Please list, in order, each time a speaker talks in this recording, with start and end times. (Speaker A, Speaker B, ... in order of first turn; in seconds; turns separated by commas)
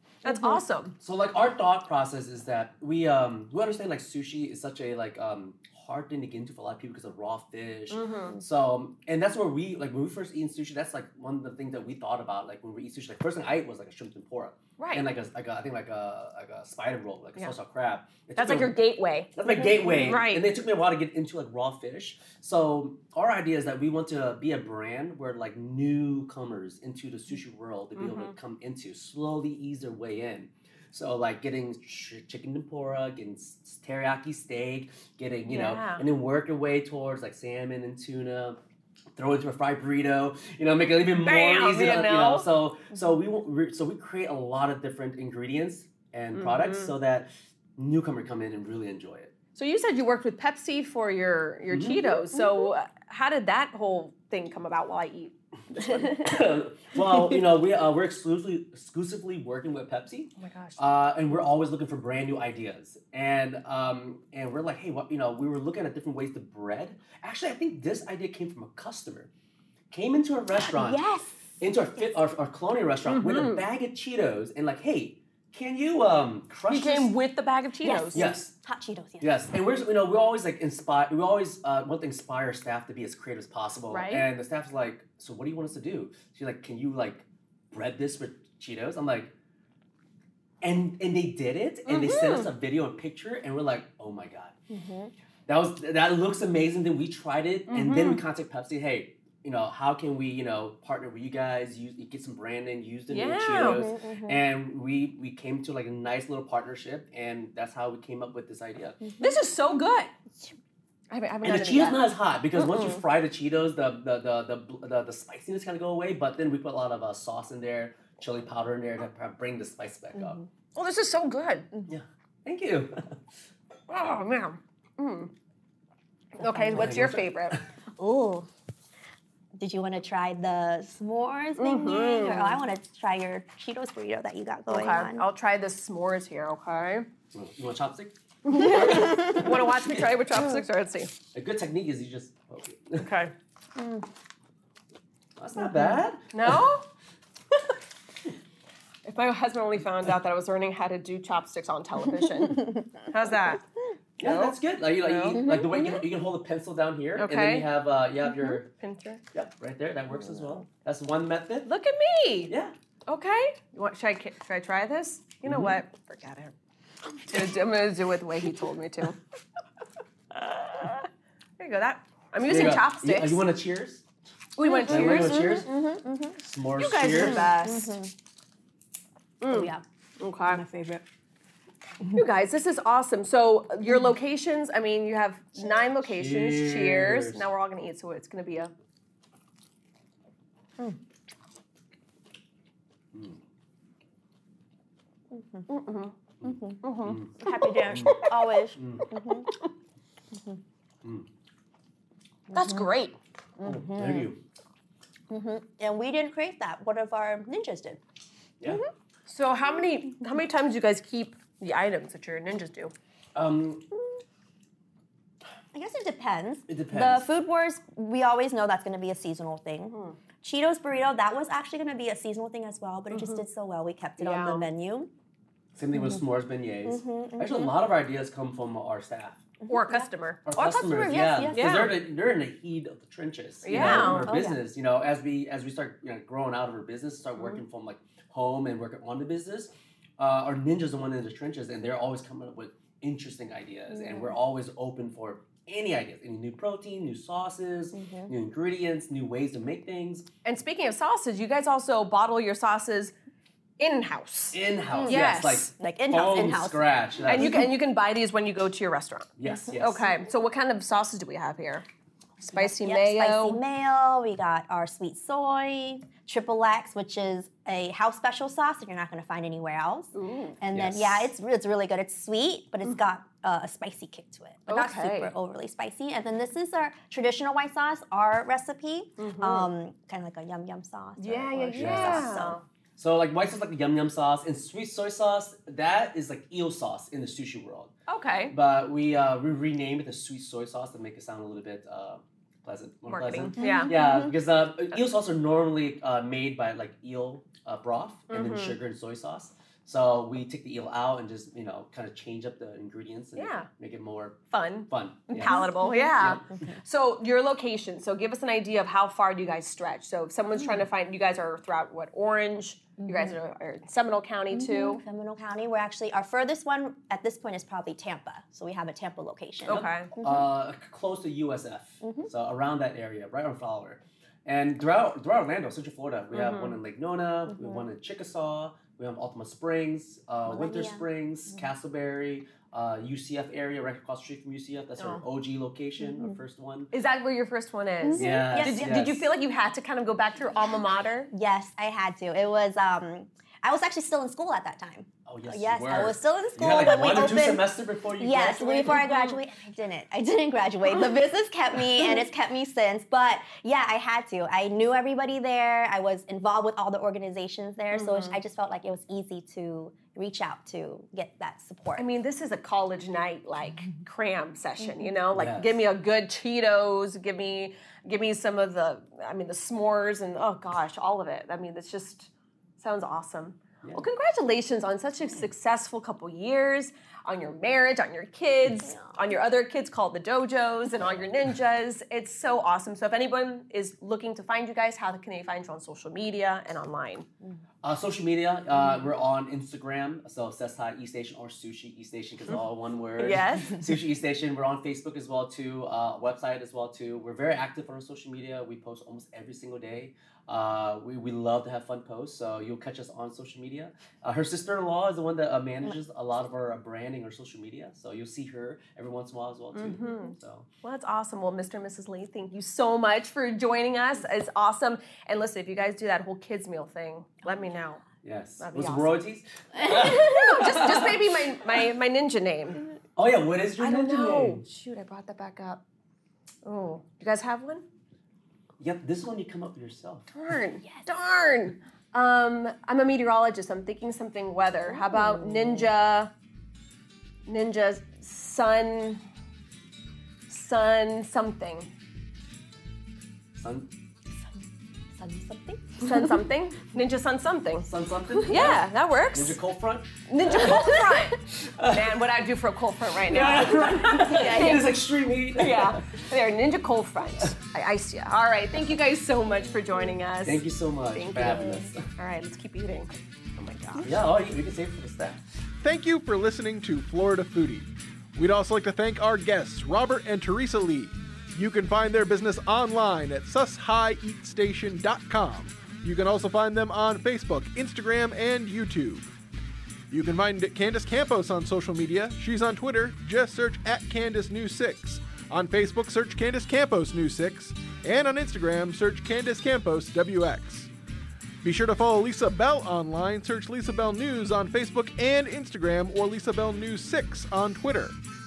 Speaker A: 0.2-1.0, Speaker B: 0.2-0.6, Speaker C: 1.0-18.8, Speaker A: 7.9-8.4, Speaker A: 14.8-15.1, Speaker A: 18.4-19.3, Speaker C: 19.4-38.6, Speaker B: 19.8-20.1, Speaker A: 20.0-20.5, Speaker A: 28.0-28.4, Speaker A: 35.5-36.0, Speaker C: 39.2-49.3, Speaker A: 41.1-42.5, Speaker A: 46.4-46.9, Speaker A: 49.5-56.3, Speaker C: 51.7-52.2, Speaker C: 55.8-69.3, Speaker A: 60.4-60.8, Speaker C: 69.9-71.0, Speaker B: 70.6-71.4, Speaker C: 71.6-77.2, Speaker A: 73.0-73.7, Speaker A: 76.7-78.3, Speaker B: 77.8-79.3, Speaker C: 78.1-78.5, Speaker C: 79.2-89.3, Speaker A: 83.9-84.3, Speaker C: 90.6-94.5, Speaker A: 91.9-92.5, Speaker B: 94.7-95.1, Speaker C: 95.5-109.0, Speaker A: 97.7-98.2, Speaker A: 103.1-103.9, Speaker B: 103.5-104.4, Speaker B: 109.0-109.3, Speaker A: 109.2-110.1, Speaker A: 111.1-113.0, Speaker C: 111.4-120.4, Speaker A: 120.8-121.7, Speaker C: 121.9-123.2, Speaker A: 123.9-125.3, Speaker A: 126.3-127.6, Speaker B: 126.4-126.9, Speaker C: 126.7-127.6, Speaker B: 128.0-128.5, Speaker B: 129.6-135.2, Speaker A: 131.6-132.6, Speaker A: 134.7-137.1, Speaker C: 137.3-140.1, Speaker A: 138.4-141.1, Speaker C: 141.3-143.1, Speaker A: 143.0-143.3, Speaker B: 143.8-144.0, Speaker C: 145.4-146.6, Speaker B: 145.6-146.0, Speaker A: 146.3-146.8, Speaker A: 149.1-153.6, Speaker C: 154.2-158.7, Speaker A: 154.2-155.4, Speaker B: 155.3-156.1, Speaker A: 157.2-157.7, Speaker A: 158.4-159.2, Speaker C: 159.3-161.7, Speaker B: 160.2-160.6, Speaker A: 161.7-162.5, Speaker A: 163.1-166.5, Speaker C: 165.4-165.8, Speaker A: 167.3-169.2, Speaker A: 170.3-171.1, Speaker A: 171.6-173.4, Speaker C: 172.4-174.0, Speaker A: 174.6-176.0, Speaker B: 174.7-176.4, Speaker C: 174.9-175.7, Speaker C: 176.4-177.5, Speaker A: 176.8-178.0, Speaker B: 177.1-178.1, Speaker A: 179.4-180.6, Speaker B: 179.5-179.8, Speaker B: 180.5-181.0, Speaker A: 182.1-188.7, Speaker C: 186.0-187.5, Speaker B: 195.3-195.7, Speaker A: 195.7-196.2, Speaker C: 196.4-199.1, Speaker B: 196.4-196.8, Speaker A: 196.8-198.3, Speaker B: 197.4-199.5, Speaker B: 202.5-202.9, Speaker A: 202.5-203.2, Speaker B: 203.6-204.3, Speaker C: 203.6-204.4, Speaker B: 205.3-208.0, Speaker A: 208.7-212.9, Speaker C: 213.3-213.9, Speaker B: 215.7-225.1, Speaker C: 216.7-217.3, Speaker A: 219.9-220.2, Speaker A: 223.1-223.4, Speaker A: 224.2-224.7, Speaker C: 225.8-229.5, Speaker B: 226.8-227.8, Speaker B: 229.6-231.8, Speaker A: 229.7-230.4, Speaker C: 230.4-250.3, Speaker A: 231.5-231.9, Speaker A: 233.6-234.3, Speaker B: 233.7-234.6, Speaker B: 243.9-244.3, Speaker B: 247.9-248.3, Speaker A: 250.4-253.2, Speaker A: 253.8-255.7, Speaker C: 254.5-257.7, Speaker B: 255.0-256.8, Speaker A: 257.3-261.9, Speaker B: 257.4-257.6, Speaker C: 259.4-260.0, Speaker B: 262.4-282.6, Speaker A: 262.5-263.6, Speaker A: 270.1-270.6, Speaker C: 270.7-271.3, Speaker A: 274.7-275.3, Speaker A: 279.2-279.7, Speaker A: 281.2-282.6, Speaker C: 281.8-282.3, Speaker C: 283.0-287.9, Speaker A: 288.1-288.6, Speaker C: 288.5-305.6, Speaker A: 293.1-293.9, Speaker B: 293.6-294.4, Speaker A: 298.3-298.8, Speaker A: 303.4-303.7, Speaker A: 304.5-315.0, Speaker B: 305.4-306.7, Speaker C: 306.2-306.5, Speaker B: 313.0-313.4, Speaker B: 314.5-320.5, Speaker A: 319.6-320.1, Speaker C: 319.7-336.9, Speaker B: 322.0-322.3, Speaker A: 326.3-326.8, Speaker B: 330.5-331.1, Speaker A: 335.0-335.2, Speaker A: 336.9-341.3, Speaker B: 338.0-338.9, Speaker C: 338.1-339.3, Speaker B: 341.3-347.7, Speaker C: 345.3-349.0, Speaker B: 348.2-362.1, Speaker A: 348.8-349.4, Speaker A: 357.9-358.4, Speaker A: 362.0-387.3, Speaker C: 365.3-365.8, Speaker C: 387.8-410.7, Speaker A: 393.2-393.8, Speaker A: 409.8-418.0, Speaker C: 418.2-421.2, Speaker A: 418.6-419.2, Speaker A: 419.8-422.8, Speaker C: 423.2-424.6, Speaker A: 423.8-425.8, Speaker A: 426.6-427.8, Speaker C: 428.8-430.3, Speaker A: 430.3-436.3, Speaker B: 435.1-435.8, Speaker A: 437.5-439.2, Speaker A: 440.5-441.9, Speaker C: 443.6-443.9, Speaker B: 445.1-446.3, Speaker A: 446.0-447.9, Speaker C: 447.9-448.8, Speaker A: 448.5-449.6, Speaker C: 449.3-450.1, Speaker A: 450.3-455.0, Speaker C: 451.6-452.1, Speaker C: 453.3-456.0, Speaker B: 453.5-454.9, Speaker A: 455.6-464.2, Speaker C: 460.4-462.1, Speaker C: 464.0-465.4, Speaker D: 465.8-479.2, Speaker D: 480.1-490.9, Speaker D: 491.6-498.1